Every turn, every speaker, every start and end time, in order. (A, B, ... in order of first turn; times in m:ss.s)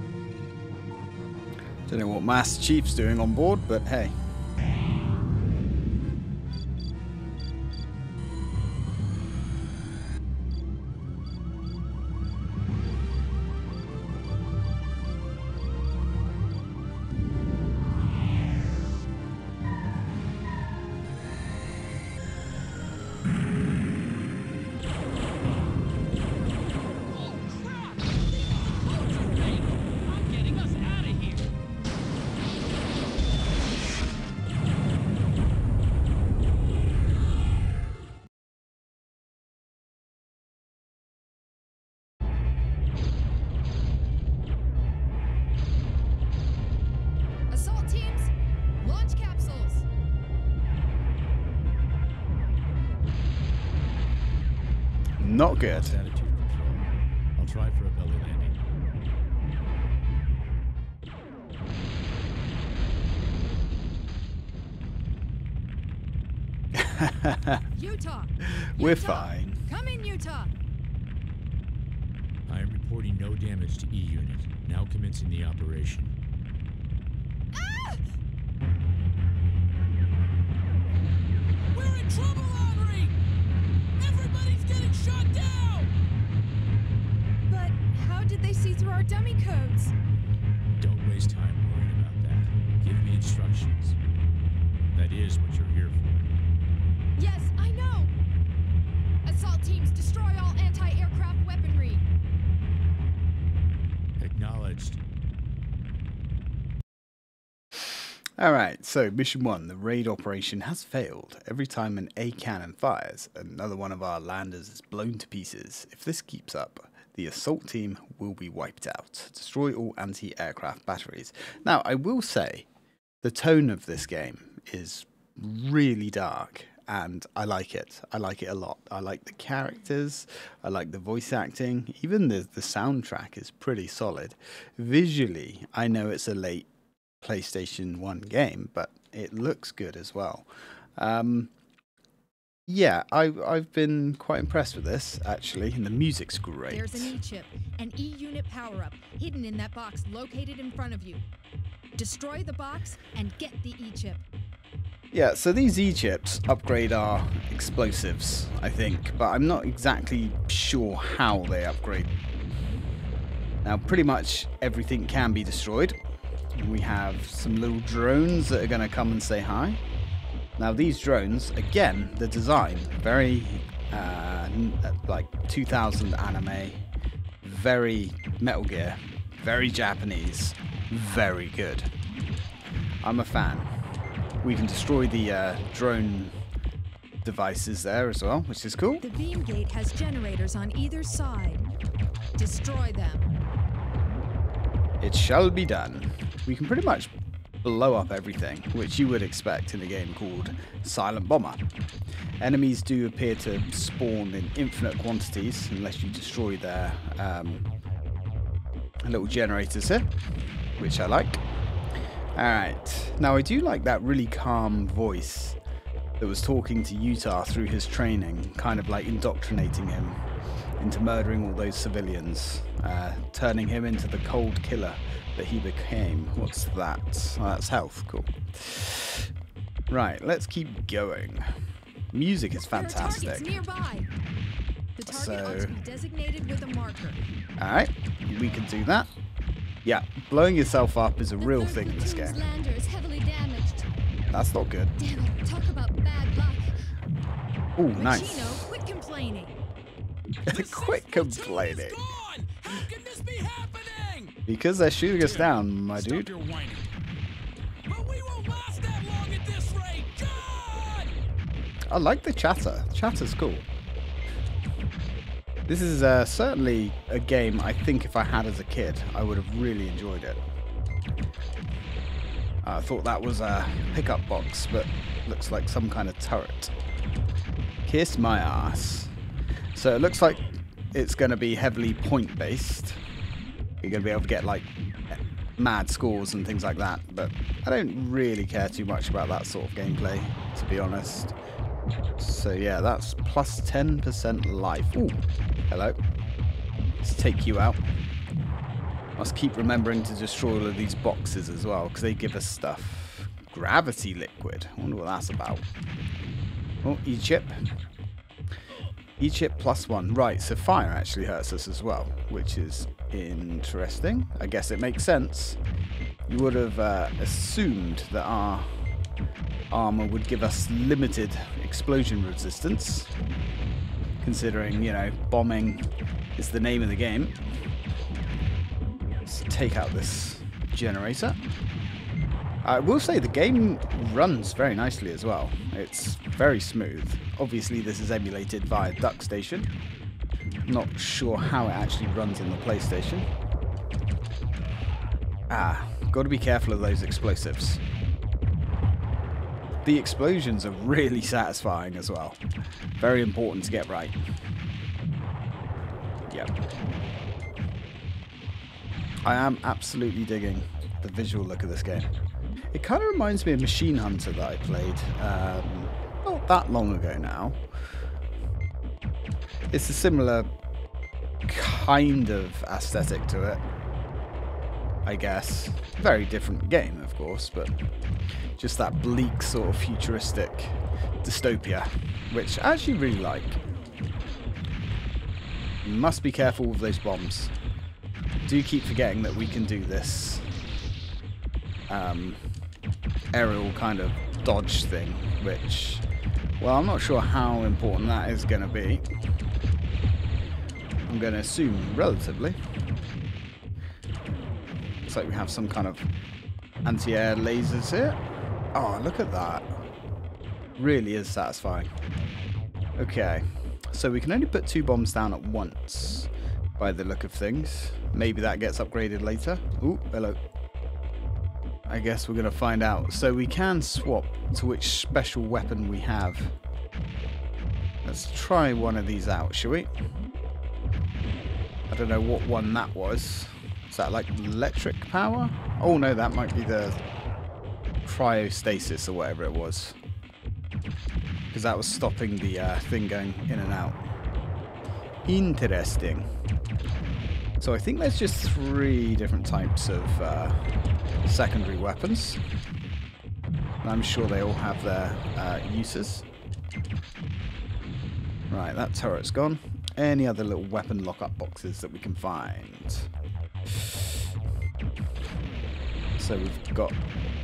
0:01.9-0:04.1 A
0:27.0-0:31.5 B
0:47.5-0:49.8 C
0:55.2-0:56.0 A
0:55.5-0:58.6 D
1:06.8-1:07.6 A
1:07.7-1:10.5 C
1:08.5-1:09.6 A
1:12.5-1:16.2 D
1:17.5-1:18.1 C
1:21.7-1:23.2 B
1:24.0-1:25.9 B
1:27.5-1:30.0 C
1:30.8-1:34.0 D
1:34.9-1:36.3 D
1:37.2-1:38.1 C
1:39.2-1:42.1 C
1:44.2-1:45.0 D
1:48.4-2:02.7 A
2:03.2-2:16.7 A
2:17.2-2:21.5 A
2:22.7-2:27.2 A
2:26.7-2:31.3 C
2:32.0-2:34.2 C
2:35.1-2:42.1 A
2:43.6-2:46.0 A
2:46.6-2:49.8 A
2:50.6-2:56.8 A
2:57.4-3:01.9 A
3:03.0-3:03.7 A
3:04.4-3:06.4 A
3:07.2-3:09.0 A
3:09.0-3:11.7 C
3:12.4-3:13.3 C
3:15.0-3:17.1 A
3:17.6-3:21.6 A
3:22.4-3:27.6 A
3:29.0-3:30.1 A
3:30.8-3:31.4 A
3:32.4-3:35.6 A
3:36.2-3:40.2 A
3:40.8-3:49.3 A
3:49.9-3:51.5 A
3:52.1-3:53.5 A
3:52.7-3:54.1 C
3:55.0-3:57.2 C
3:55.1-3:55.8 A
3:57.6-3:59.1 A
3:59.8-4:02.4 A
4:01.4-4:03.9 E
4:04.3-4:04.9 A
4:05.0-4:06.8 E
4:07.8-4:08.7 A
4:07.9-4:09.6 C
4:10.5-4:14.4 B
4:10.5-4:12.0 A
4:14.5-4:16.3 A
4:15.2-4:16.9 B
4:17.9-4:21.1 B
4:21.9-4:23.6 A
4:25.7-4:30.4 A
4:32.6-4:36.7 A
4:37.9-4:39.1 A
4:39.8-4:43.0 A
4:43.8-4:51.3 A
4:52.2-4:56.0 A
4:57.0-4:57.8 A
4:59.2-5:05.7 A
5:06.8-5:07.6 A
5:09.2-5:15.6 A
5:16.3-5:18.8 A
5:19.7-5:23.1 A
5:24.2-5:27.4 A
5:29.2-5:31.4 A
5:32.6-5:39.7 A
5:40.6-5:43.3 A
5:45.5-5:47.8 A
5:49.8-5:52.4 A
5:53.0-5:54.2 A
5:59.2-6:02.1 A
6:02.7-6:07.6 A
6:09.7-6:10.5 A
6:11.5-6:13.6 A
6:15.0-6:17.8 A
6:18.6-6:23.6 A
6:25.8-6:27.5 A
6:28.5-6:30.5 A
6:31.9-6:32.4 A
6:33.3-6:36.0 A
6:36.6-6:39.1 A
6:41.1-6:42.6 A
6:45.1-6:46.1 A
6:46.8-6:48.2 A
6:48.7-6:49.8 A
6:50.8-6:51.9 A
6:53.0-7:00.4 A
7:01.9-7:06.6 A
7:08.0-7:09.9 A
7:11.9-7:17.0 A
7:18.0-7:20.0 A
7:21.5-7:24.0 A
7:25.2-7:26.3 A
7:27.6-7:30.6 A
7:31.3-7:32.4 A
7:33.8-7:36.3 A
7:38.5-7:43.1 A
7:46.2-7:47.0 A